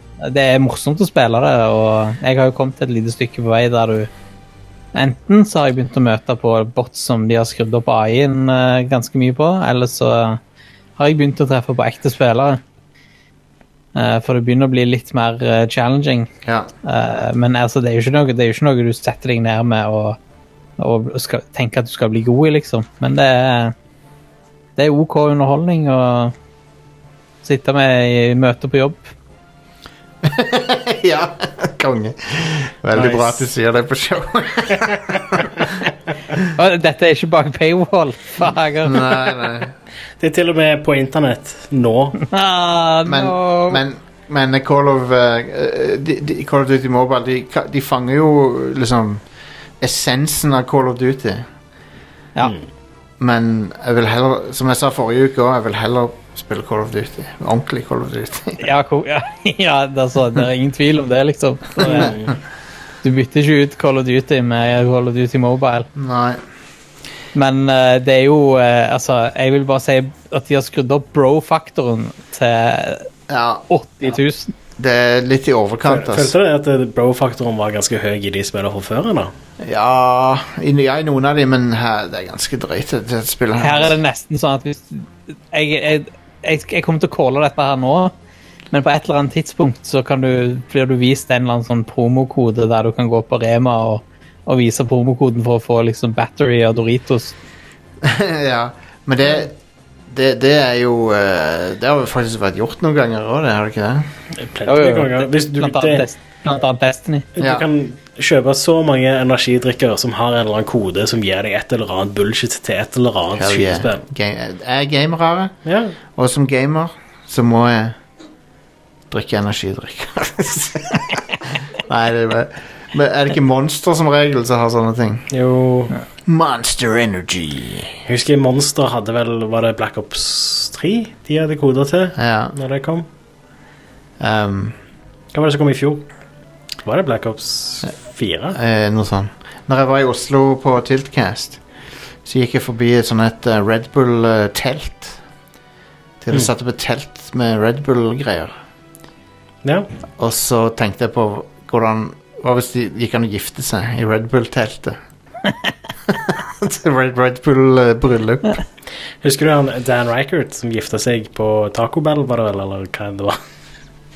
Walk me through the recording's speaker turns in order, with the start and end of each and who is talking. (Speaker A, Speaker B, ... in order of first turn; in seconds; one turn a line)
Speaker A: 0.2-4.1
Speaker A: 4.9-10.4
Speaker A: 11.0-12.6
Speaker A: 13.9-16.3
Speaker B: 16.4-16.7
Speaker A: 16.8-20.2
Speaker A: 20.8-23.7
Speaker A: 24.8-26.3
Speaker A: 27.4-29.1
Speaker B: 30.2-35.5
Speaker C: 32.9-33.5
Speaker A: 36.5-39.1
Speaker B: 38.8-39.7
Speaker C: 40.2-42.2
Speaker A: 42.3-43.8
Speaker B: 43.0-49.2
Speaker B: 49.8-51.5
Speaker B: 53.2-58.7
Speaker A: 58.6-62.2
Speaker C: 61.8-62.3
Speaker A: 63.0-65.9
Speaker B: 65.9-66.4
Speaker A: 67.3-73.1
Speaker B: 73.3-73.6
Speaker A: 73.7-74.5
Speaker B: 74.8-76.3
Speaker C: 75.8-79.3
Speaker B: 79.6-84.0
Speaker A: 83.6-88.1
Speaker A: 88.7-97.3
Speaker B: 98.0-99.5
Speaker B: 100.1-104.1
Speaker C: 104.4-106.1
Speaker A: 104.7-107.3
Speaker C: 107.3-114.0
Speaker B: 107.4-107.6
Speaker B: 113.3-115.5
Speaker C: 115.6-115.9
Speaker B: 116.1-118.0
Speaker B: 119.1-125.3
Speaker C: 125.3-126.0
Speaker B: 126.2-128.0
Speaker C: 128.1-133.0
Speaker B: 132.2-132.6
Speaker B: 134.2-134.8
Speaker C: 135.3-136.1
Speaker C: 136.8-138.6
Speaker B: 138.5-141.6
Speaker B: 142.2-145.2
Speaker B: 146.2-148.5
Speaker C: 149.6-149.9
Speaker B: 150.2-155.0
Speaker B: 156.1-158.6
Speaker C: 159.2-163.4